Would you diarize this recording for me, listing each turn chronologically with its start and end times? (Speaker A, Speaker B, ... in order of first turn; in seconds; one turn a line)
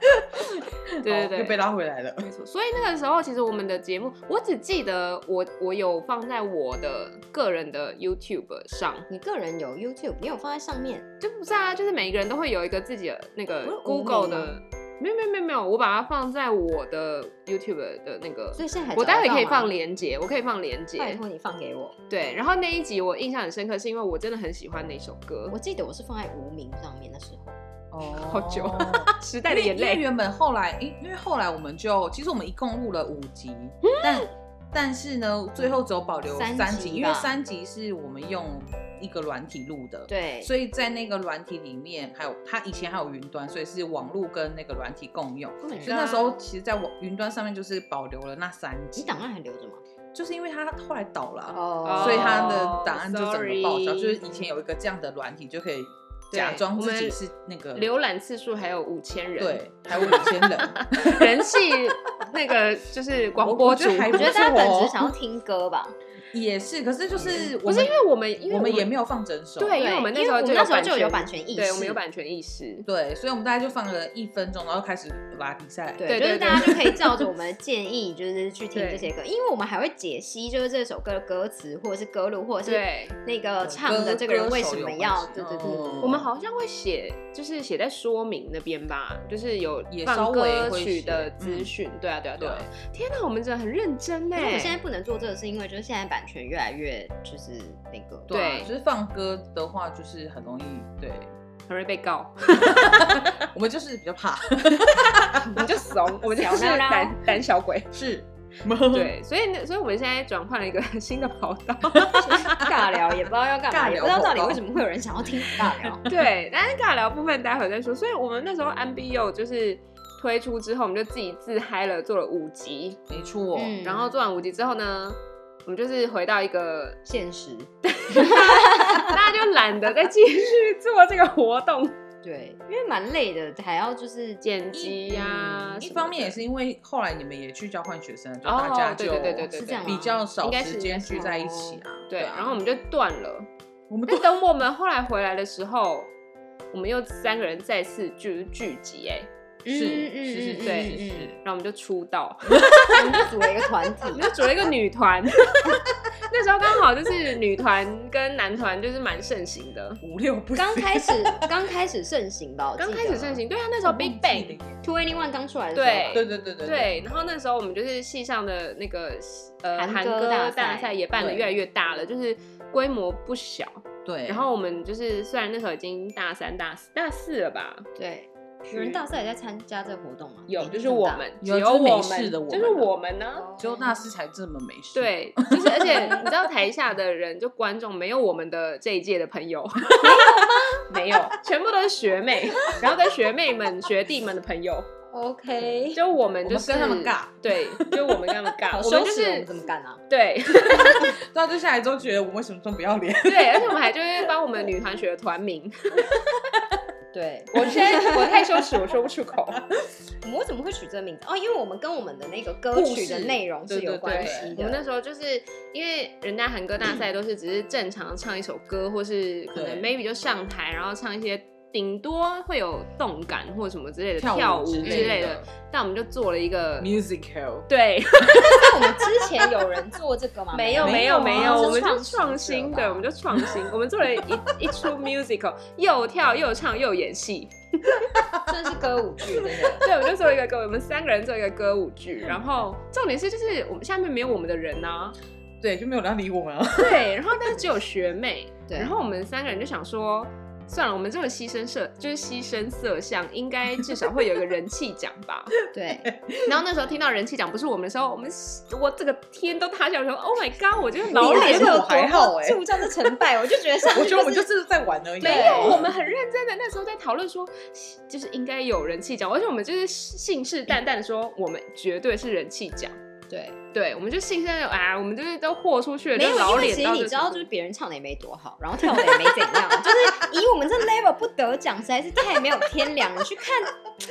Speaker A: 0.2-2.3
Speaker B: 1.0-1.6
Speaker B: 2.2-9.1
Speaker C: 9.1-11.1
Speaker B: 11.2-21.2
Speaker C: 13.6-14.6
Speaker C: 18.6-19.8
Speaker C: 21.0-21.9
Speaker B: 22.1-25.6
Speaker C: 25.5-27.6
Speaker A: 27.9-49.2
Speaker B: 28.2-30.0
Speaker B: 33.8-34.3
Speaker C: 36.3-37.4
Speaker C: 40.1-40.5
Speaker B: 45.6-46.4
Speaker C: 49.0-49.8
Speaker A: 50.1-57.9
Speaker C: 51.5-52.5
Speaker B: 51.9-54.2
Speaker B: 56.3-57.2
Speaker B: 57.8-64.4
Speaker A: 59.4-61.3
Speaker A: 63.4-65.1
Speaker C: 64.1-66.0
Speaker A: 66.3-69.9
Speaker C: 67.2-67.5
Speaker B: 67.3-68.9
Speaker B: 69.6-72.9
Speaker C: 69.8-72.0
Speaker A: 72.9-77.1
Speaker C: 76.0-86.2
Speaker B: 76.1-76.8
Speaker B: 78.7-79.1
Speaker B: 82.7-83.2
Speaker A: 83.6-86.3
Speaker B: 86.0-94.8
Speaker A: 89.9-91.7
Speaker A: 92.4-92.7
Speaker C: 94.4-98.3
Speaker A: 98.3-101.3
Speaker B: 98.3-98.7
Speaker B: 101.7-103.4
Speaker A: 102.7-105.7
Speaker B: 105.3-107.9
Speaker C: 106.3-107.2
Speaker A: 107.9-109.1
Speaker B: 108.9-112.7
Speaker A: 112.0-112.8
Speaker C: 112.2-116.0
Speaker A: 113.7-114.6
Speaker A: 115.5-116.3
Speaker B: 116.1-123.0
Speaker A: 123.1-123.8
Speaker C: 123.5-124.1
Speaker B: 123.8-127.0
Speaker C: 127.1-129.2
Speaker B: 127.8-132.0
Speaker C: 132.2-135.0
Speaker B: 134.4-136.4
Speaker A: 135.1-142.6
Speaker B: 138.4-141.2
Speaker C: 139.4-140.2
Speaker C: 141.1-141.8
Speaker B: 142.1-143.5
Speaker A: 143.9-144.3
Speaker B: 144.1-146.1
Speaker B: 146.7-149.3
Speaker C: 149.7-151.3
Speaker A: 149.7-151.4
Speaker B: 150.6-153.3
Speaker A: 152.6-152.9
Speaker C: 152.9-154.3
Speaker B: 154.1-160.0
Speaker A: 160.0-161.5
Speaker C: 160.6-163.4
Speaker B: 162.8-164.6
Speaker A: 163.8-164.8
Speaker C: 164.8-166.2
Speaker B: 165.7-177.9
Speaker A: 166.1-167.0
Speaker C: 169.8-171.0
Speaker A: 171.2-171.6
Speaker A: 174.1-174.5
Speaker C: 178.0-181.2
Speaker B: 178.7-179.0
Speaker B: 180.5-183.5
Speaker A: 181.4-182.9
Speaker C: 183.4-184.0
Speaker A: 183.6-186.2
Speaker B: 184.9-190.2
Speaker C: 185.8-186.3
Speaker C: 190.0-190.8
Speaker A: 190.0-190.4
Speaker B: 190.9-194.9
Speaker C: 195.1-196.0
Speaker B: 195.9-199.5
Speaker A: 196.4-198.4
Speaker C: 198.7-200.0
Speaker B: 200.1-201.2
Speaker A: 200.7-203.9
Speaker B: 203.2-206.1
Speaker A: 206.2-206.6
Speaker C: 207.1-208.5
Speaker B: 207.5-209.6
Speaker C: 210.2-214.8
Speaker A: 212.7-214.5
Speaker B: 214.0-226.9
Speaker A: 219.5-219.9
Speaker A: 224.2-225.5
Speaker C: 224.8-225.2
Speaker A: 226.8-227.7
Speaker B: 227.7-229.7
Speaker A: 228.3-228.7
Speaker C: 228.4-233.1
Speaker B: 230.5-238.2
Speaker A: 230.8-231.8
Speaker C: 238.5-239.9
Speaker B: 239.8-245.2
Speaker A: 245.6-247.1
Speaker B: 246.8-255.6
Speaker C: 255.7-256.1
Speaker A: 255.9-256.6
Speaker B: 256.4-261.8
Speaker C: 261.1-264.5
Speaker A: 261.1-263.2
Speaker A: 263.8-265.9
Speaker C: 265.2-265.9
Speaker B: 265.2-273.0
Speaker C: 273.3-273.6
Speaker B: 273.7-277.5
Speaker C: 276.1-283.8